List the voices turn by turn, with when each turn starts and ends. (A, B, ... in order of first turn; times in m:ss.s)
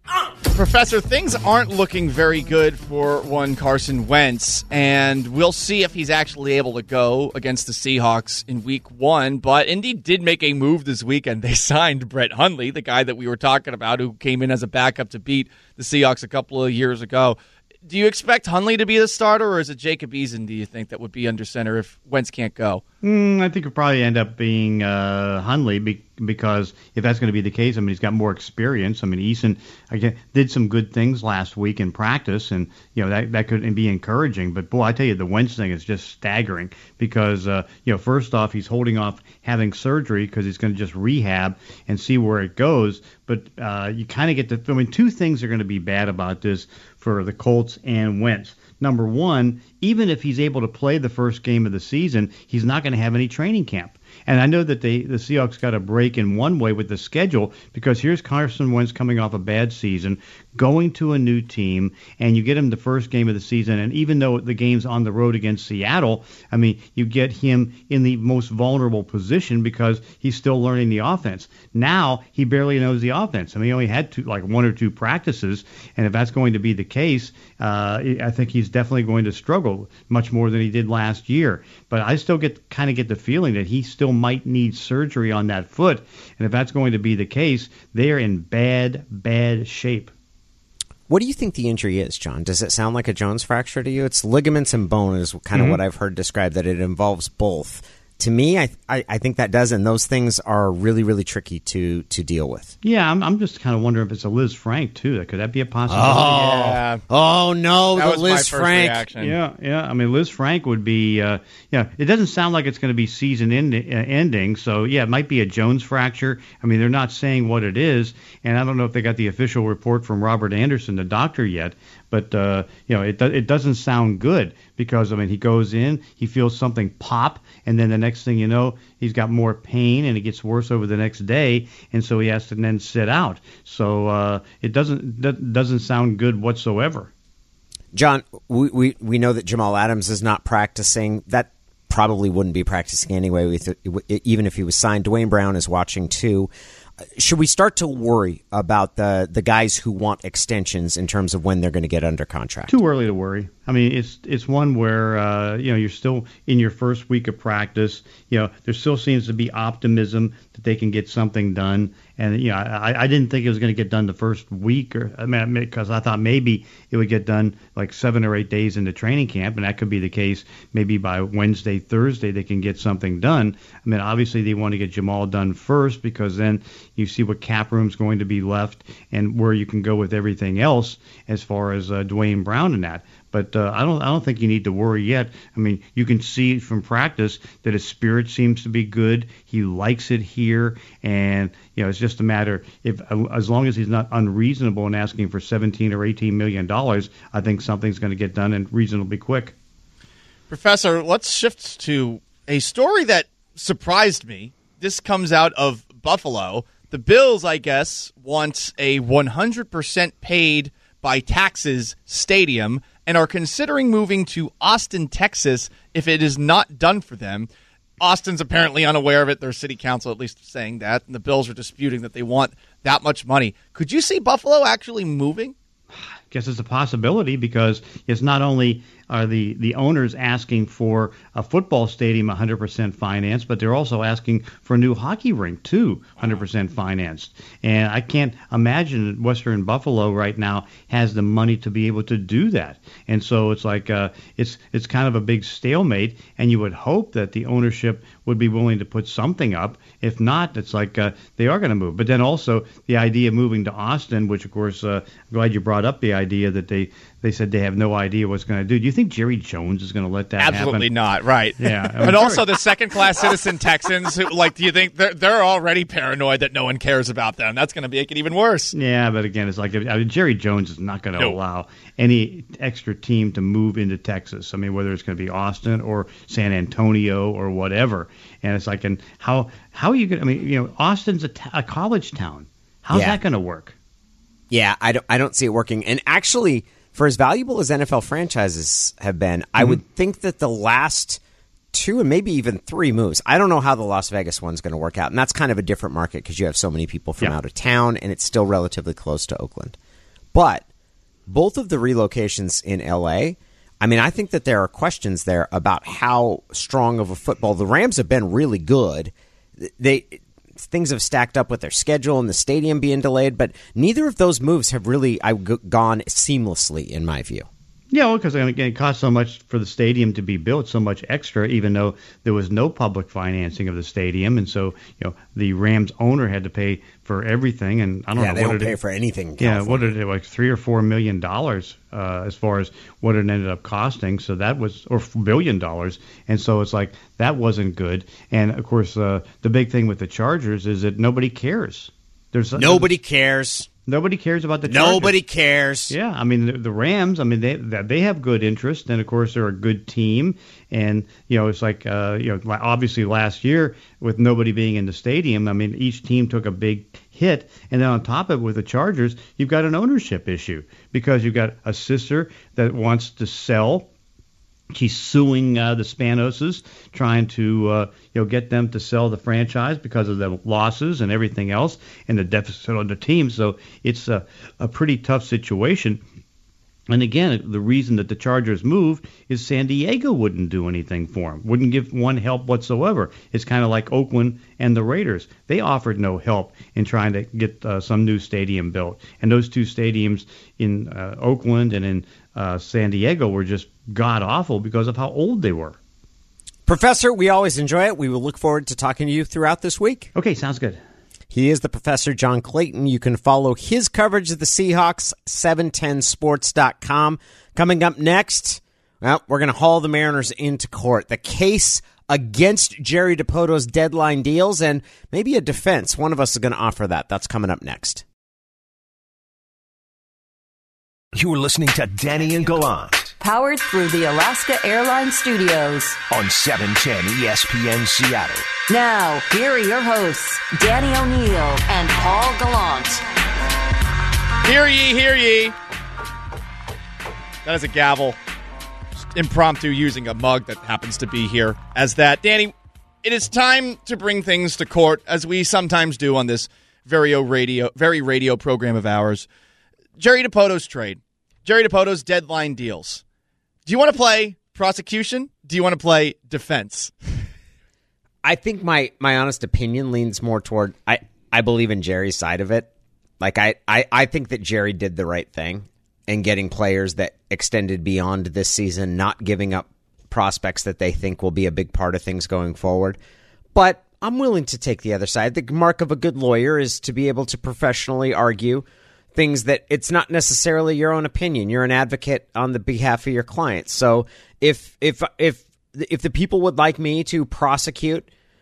0:00.5-0:22.8 A
0:23.0-1:30.1 B
1:31.1-1:42.7 C
1:42.8-1:46.7 B
1:45.9-1:49.0 C
1:46.2-1:47.0 A
1:47.9-1:49.4 A
1:49.2-2:17.1 B
2:17.9-2:26.5 C
2:27.2-2:32.7 C
2:32.7-3:19.5 B
3:20.5-3:45.5 A
3:46.3-4:20.9 B
4:20.4-4:28.7 A
4:21.6-4:22.6 B
4:28.7-4:43.7 B
4:42.9-4:43.2 C
4:44.5-4:51.2 C
4:51.7-4:59.8 C
5:00.3-5:00.6 C
5:01.3-5:17.5 C
5:17.9-5:28.7 B
5:28.1-5:29.9 C
5:29.4-5:42.9 B
5:42.6-5:43.7 C
5:43.9-5:45.2 B
5:44.6-5:45.9 C
5:45.9-6:03.9 B
6:04.7-6:16.0 B
6:16.9-6:35.8 B
6:36.6-6:40.1 C
6:40.1-6:40.8 B
6:41.3-6:58.0 C
7:01.1-7:03.2 D
7:03.2-7:06.0 E
7:06.1-7:08.5 D
7:08.7-7:13.0 E
7:14.4-7:15.6 A
7:17.4-7:18.2 A
7:19.1-7:29.3 A
7:30.0-7:33.0 A
7:33.6-7:37.2 A
7:38.2-7:42.7 C
7:43.2-7:53.0 C
7:53.5-8:08.1 C